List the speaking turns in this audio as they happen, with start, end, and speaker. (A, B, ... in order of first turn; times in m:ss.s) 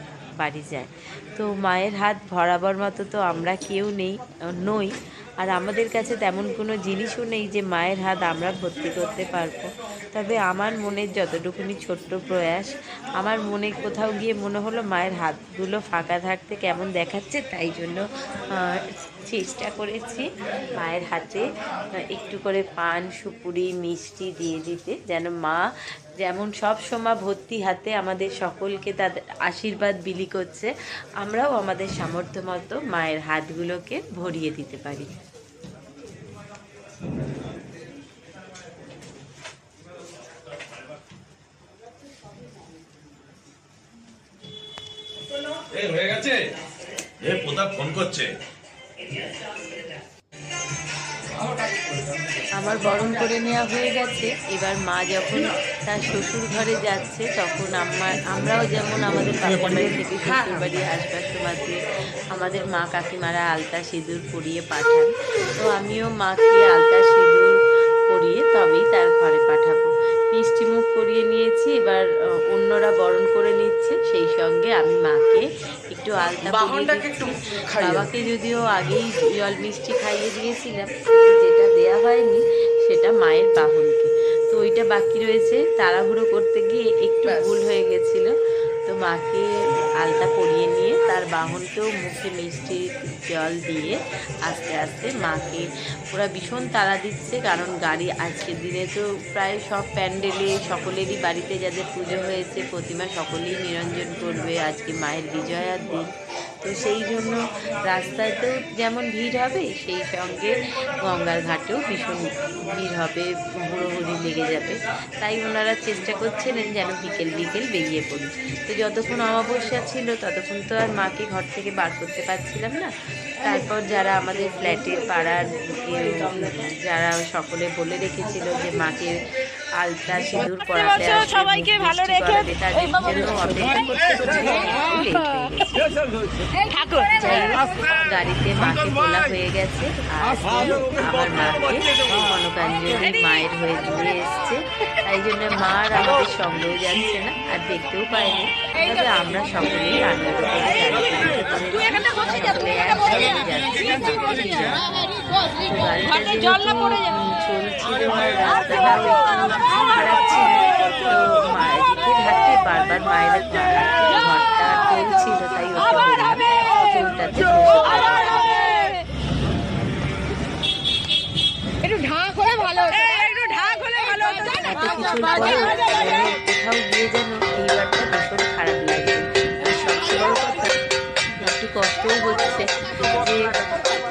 0:00.4-0:25.6 A
0:26.2-0:35.1 A
0:45.7-0:46.5 B
0:47.2-0:48.3 B
0:52.5-1:07.6 A
1:08.1-1:28.3 A
1:16.5-1:18.0 C
1:27.2-1:27.5 C
1:28.8-1:46.1 A
1:46.6-2:15.9 A
2:17.2-2:34.8 A
2:20.4-2:22.3 B
2:35.6-2:48.6 A
2:51.8-2:54.7 C
2:54.6-3:00.8 A
3:01.3-3:03.6 A